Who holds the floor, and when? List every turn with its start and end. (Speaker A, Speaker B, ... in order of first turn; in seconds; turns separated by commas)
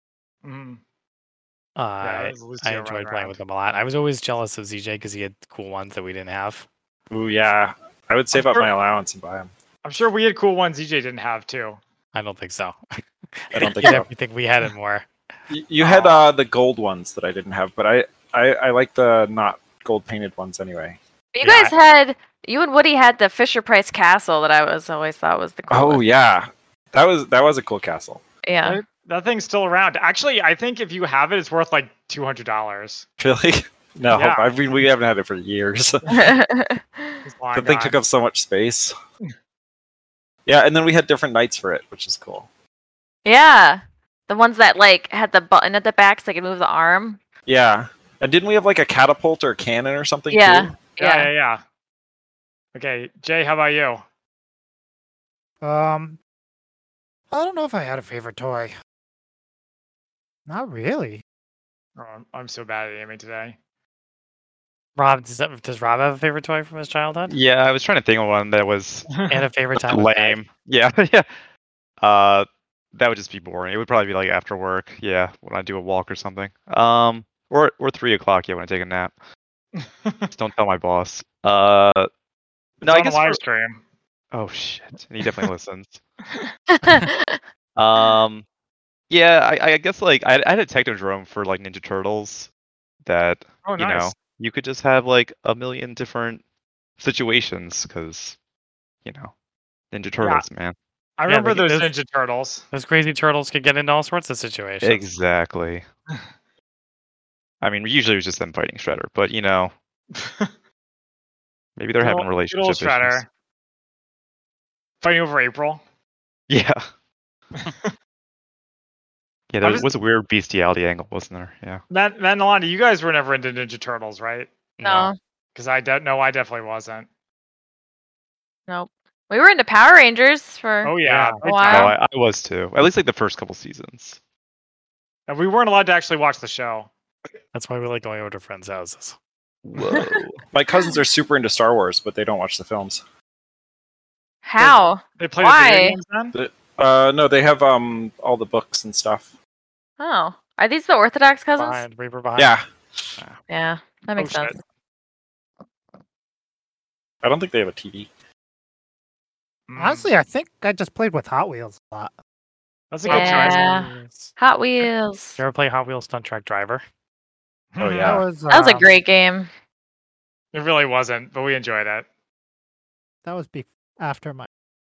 Speaker A: 0.4-0.8, Speaker B: 1.8-6.7, Speaker A: 2.0-3.4, Speaker C: 7.1-9.5, Speaker A: 8.3-8.7, Speaker A: 9.8-11.8, Speaker B: 12.2-12.8, Speaker B: 13.4-15.1, Speaker C: 13.5-14.1, Speaker C: 15.5-21.0, Speaker A: 15.8-16.1, Speaker D: 21.3-26.0, Speaker B: 21.4-21.7, Speaker C: 25.7-28.2, Speaker D: 28.4-28.8, Speaker A: 28.6-33.0, Speaker C: 33.2-36.3, Speaker A: 34.1-34.5, Speaker D: 36.1-37.2, Speaker A: 37.3-38.0, Speaker C: 37.5-39.0, Speaker C: 40.5-42.5, Speaker D: 43.2-47.2, Speaker C: 47.5-50.8, Speaker D: 50.3-51.3, Speaker A: 51.0-51.6, Speaker A: 52.8-54.0, Speaker E: 55.6-56.2, Speaker E: 57.3-58.7, Speaker E: 60.5-61.2, Speaker A: 62.0-63.6, Speaker B: 65.0-67.3, Speaker F: 67.3-71.3, Speaker A: 69.1-69.5, Speaker B: 69.2-70.5, Speaker F: 72.0-79.1, Speaker A: 79.8-80.3, Speaker F: 80.3-82.1, Speaker F: 82.8-83.4, Speaker A: 82.8-83.8, Speaker F: 84.3-86.0, Speaker D: 86.7-87.4, Speaker F: 87.8-88.5, Speaker F: 89.1-92.5, Speaker F: 93.0-96.4, Speaker A: 93.7-94.2, Speaker F: 97.0-98.4, Speaker F: 99.0-99.3, Speaker F: 99.9-100.8, Speaker A: 101.2-102.7, Speaker B: 101.3-101.9, Speaker B: 102.7-105.0, Speaker F: 104.8-105.8, Speaker F: 107.6-109.7, Speaker A: 110.1-110.5, Speaker F: 111.8-113.2, Speaker A: 112.0-113.3, Speaker A: 115.0-115.8, Speaker F: 116.5-116.8, Speaker A: 117.5-117.9, Speaker F: 119.5-121.8, Speaker A: 119.6-119.9, Speaker A: 121.9-124.5, Speaker B: 124.8-125.1, Speaker D: 124.8-125.2, Speaker A: 125.5-127.1, Speaker D: 128.7-131.9, Speaker A: 130.8-131.9, Speaker B: 131.1-131.6, Speaker F: 131.7-134.2, Speaker A: 135.3-136.9, Speaker B: 137.5-139.2, Speaker F: 139.7-140.4, Speaker C: 140.5-143.0, Speaker D: 144.4-146.0, Speaker A: 144.6-146.3, Speaker C: 146.3-149.3, Speaker D: 150.0-151.8, Speaker B: 151.6-152.6, Speaker C: 152.4-152.7, Speaker D: 153.5-154.6, Speaker A: 154.2-154.5, Speaker C: 157.2-158.1, Speaker A: 159.7-160.1, Speaker E: 159.8-162.1, Speaker A: 162.9-163.6, Speaker B: 163.1-164.3, Speaker D: 163.1-165.4, Speaker B: 165.4-166.8, Speaker A: 167.8-168.2, Speaker C: 167.8-168.2, Speaker E: 168.0-168.9, Speaker D: 168.5-169.5, Speaker A: 170.5-172.1, Speaker E: 173.2-174.5